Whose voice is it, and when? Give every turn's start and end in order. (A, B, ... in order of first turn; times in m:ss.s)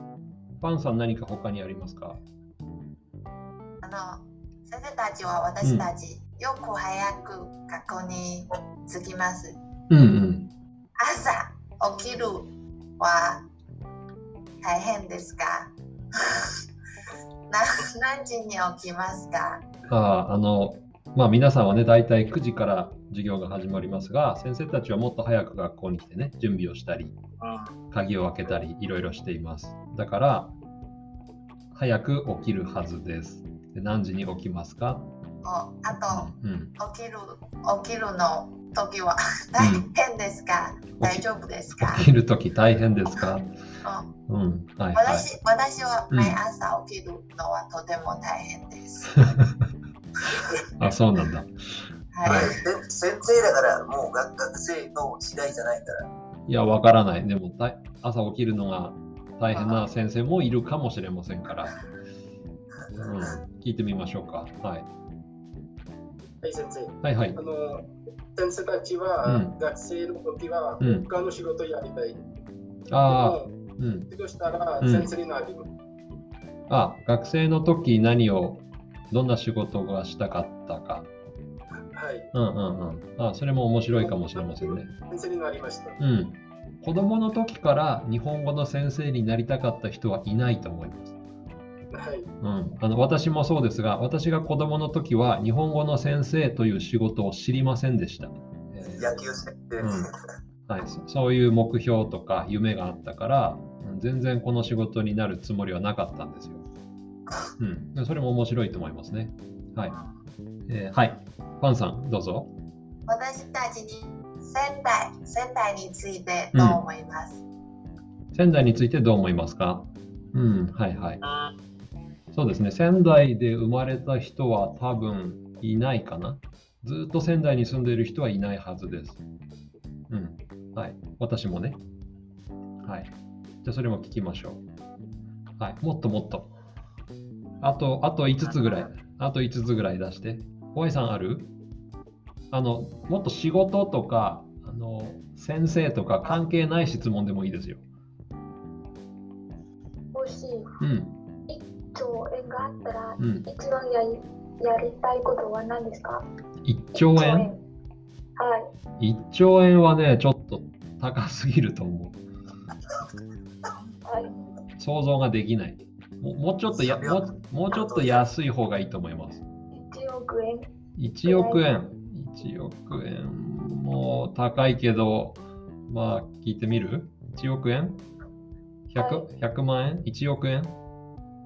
0:00.6-0:02.2 A
0:03.8-0:09.6 B
0:05.6-0:05.9 A
0:09.9-0:10.5 A
0:11.0-0:13.4 B
0:14.6-0:16.5 B
0:17.5-0:19.7 B
0:19.9-0:27.2 A
0:27.9-0:30.5 A
0:31.7-0:35.1 A
0:35.4-0:36.3 B
0:35.9-0:36.8 A
0:36.8-0:42.1 B
0:39.6-0:39.9 A
0:41.0-0:43.5 A
0:43.8-0:44.1 B
0:44.3-0:45.3 A
0:45.0-0:49.1 B
0:46.1-0:46.4 A
0:49.1-0:49.5 A
0:50.8-0:51.5 A
0:52.1-0:52.5 B
0:52.2-0:52.6 A
0:52.3-0:56.1 C
0:56.5-1:01.8 A
0:59.5-0:59.8 B
1:03.0-1:04.9 A
1:06.4-1:12.2 D
1:07.0-1:07.4 A
1:09.2-1:09.5 A
1:10.8-1:11.1 A
1:12.9-1:14.1 A
1:13.0-1:13.5 D
1:14.1-1:15.7 D
1:14.8-1:15.1 A
1:16.7-1:21.1 A
1:22.0-1:22.3 D
1:22.3-1:24.9 A
1:23.9-1:26.0 D
1:26.0-1:31.2 A
1:31.9-1:32.3 D
1:32.4-1:39.2 A
1:38.8-1:40.0 C
1:39.8-1:40.1 A
1:40.7-1:46.6 A
1:47.6-1:50.0 A
1:49.9-1:50.2 C
1:50.7-1:52.5 A
1:53.1-1:57.4 B
1:56.5-1:56.8 A
1:58.3-2:01.2 A
2:02.3-2:09.2 A
2:10.1-2:11.8 A
2:12.8-2:13.1 A
2:13.6-2:14.6 A
2:15.6-2:16.5 A
2:17.6-2:21.5 A
2:22.5-2:27.8 A
2:30.1-2:30.8 E
2:30.8-2:31.2 A
2:31.5-2:36.2 E
2:33.2-2:33.5 A
2:36.6-2:37.5 A
2:37.0-2:37.6 E
2:38.4-2:38.6 E
2:39.0-2:42.2 A
2:44.0-2:44.4 E
2:44.8-2:49.4 A
2:46.7-2:48.3 C
2:49.7-2:50.7 E
2:51.0-2:58.0 A
2:51.2-2:51.6 E
2:58.9-3:00.8 A
2:59.0-2:59.3 E